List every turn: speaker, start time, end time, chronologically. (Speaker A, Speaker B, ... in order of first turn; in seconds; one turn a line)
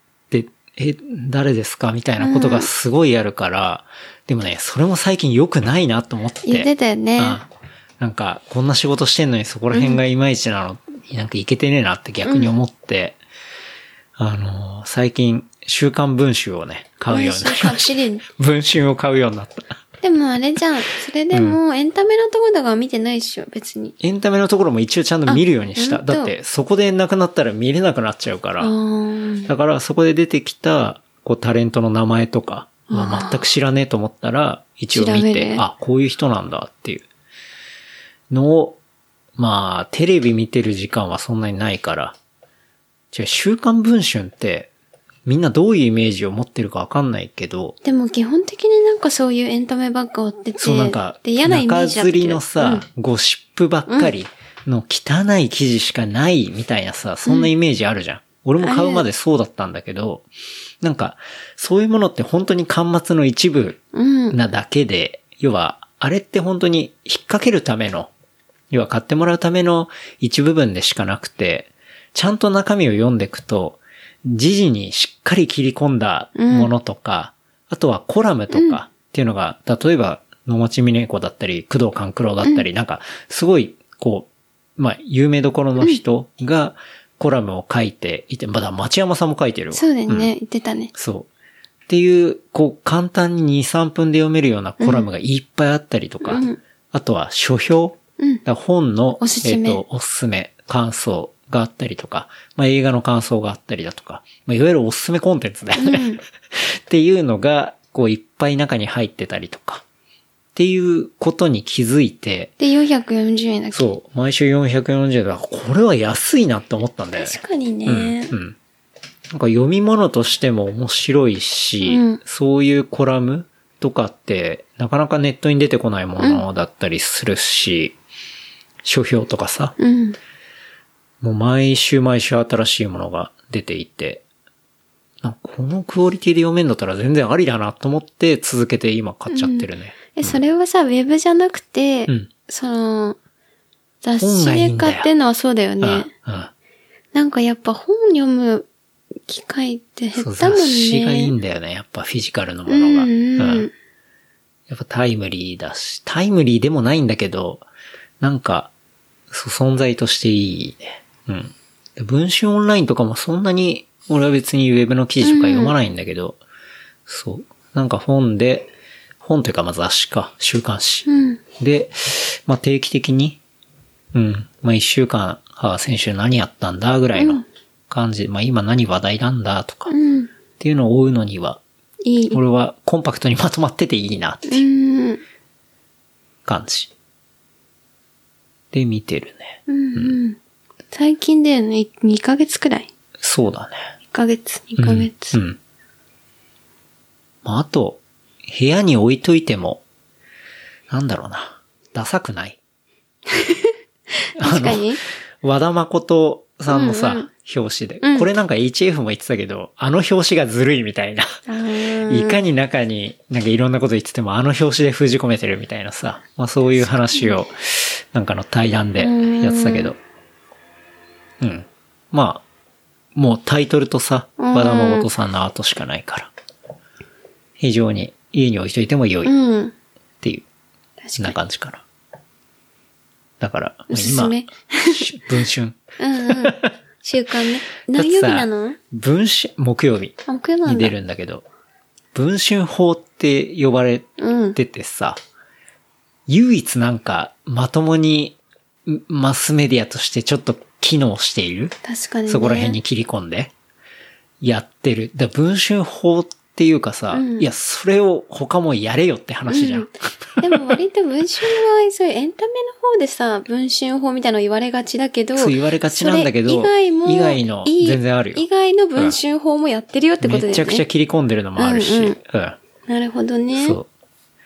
Speaker A: 0.3-13.2
Speaker B: 2.2-2.7
Speaker B: 6.5-7.4
Speaker B: 9.7-10.0
Speaker B: 12.2-12.5
Speaker A: 14.2-19.8
Speaker B: 17.1-18.2
Speaker B: 20.0-23.9
Speaker A: 21.3-21.6
Speaker A: 24.0-28.7
Speaker B: 25.3-26.3
Speaker B: 28.6-29.5
Speaker A: 29.5-37.1
Speaker B: 32.9-33.5
Speaker B: 34.9-35.6
Speaker A: 38.3-38.8
Speaker A: 39.4-42.2
Speaker A: 43.1-44.7
Speaker A: 45.3-47.8
Speaker B: 47.8-52.9
Speaker A: 50.6-60.3
Speaker B: 53.9-54.1
Speaker B: 57.2-57.5
Speaker B: 58.6-59.0
Speaker A: 60.8-68.1
Speaker B: 63.9-64.4
Speaker A: 68.7-90.3
Speaker B: 76.4-76.7
Speaker B: 78.5-78.8
Speaker B: 89.7-90.9
Speaker A: 90.9-91.3
Speaker A: 91.9-109.8
Speaker B: 94.8-95.1
Speaker B: 96.2-96.6
Speaker B: 99.2-99.8
Speaker B: 105.8-106.2
Speaker A: 110.5-112.5
Speaker B: 112.6-113.8
Speaker A: 113.7-118.6
Speaker B: 117.2-118.3
Speaker A: 119.3-128.0
Speaker B: 121.8-122.2
Speaker A: 128.8-129.8
Speaker B: 129.8-130.2
Speaker A: 131.2-134.2
Speaker A: 135.2-140.4
Speaker B: 139.3-143.2
Speaker B: 144.0-146.1
Speaker A: 144.2-145.1
Speaker A: 145.8-146.5
Speaker B: 147.1-148.7
Speaker B: 149.3-151.3
Speaker A: 150.2-153.7
Speaker B: 152.7-153.7
Speaker A: 154.7-157.7
Speaker A: 158.2-158.7
Speaker A: 159.3-166.4
Speaker B: 165.2-165.8
Speaker A: 167.1-168.7
Speaker A: 169.2-171.1
Speaker B: 171.1-171.4
Speaker A: 171.6-173.4
Speaker A: 174.1-179.9
Speaker B: 177.2-177.4
Speaker B: 179.9-180.3
Speaker A: 180.6-181.6
Speaker B: 182.0-182.4
Speaker A: 182.3-184.7
Speaker B: 184.5-185.2
Speaker A: 186.4-186.9
Speaker A: 188.7-190.2
Speaker B: 189.7-190.4
Speaker B: 190.9-192.9
Speaker A: 193.2-193.8
Speaker B: 194.1-195.4
Speaker A: 194.8-195.6
Speaker A: 197.4-199.8
Speaker A: 200.9-202.6
Speaker B: 203.3-205.0
Speaker A: 204.4-211.3
Speaker B: 206.7-207.3
Speaker B: 208.0-208.3
Speaker B: 211.5-212.4
Speaker A: 212.1-220.0
Speaker B: 216.8-217.3
Speaker B: 219.0-219.9
Speaker A: 221.4-222.4
Speaker A: 223.2-226.3
Speaker B: 224.4-225.1
Speaker A: 227.6-229.3
Speaker B: 229.2-229.7
Speaker B: 231.0-231.4
Speaker A: 231.2-231.8
Speaker A: 233.4-236.7
Speaker B: 233.9-235.1
Speaker B: 236.0-238.8
Speaker A: 237.9-241.4
Speaker B: 240.3-240.9
Speaker A: 242.1-245.2
Speaker B: 244.2-244.6
Speaker A: 246.3-251.8
Speaker B: 251.8-252.8
Speaker A: 252.3-253.5
Speaker A: 254.4-260.8
Speaker B: 257.1-257.5
Speaker B: 259.5-270.9
Speaker A: 265.4-268.4
Speaker A: 270.2-272.6
Speaker B: 271.6-272.2
Speaker B: 272.9-273.8
Speaker A: 273.5-273.9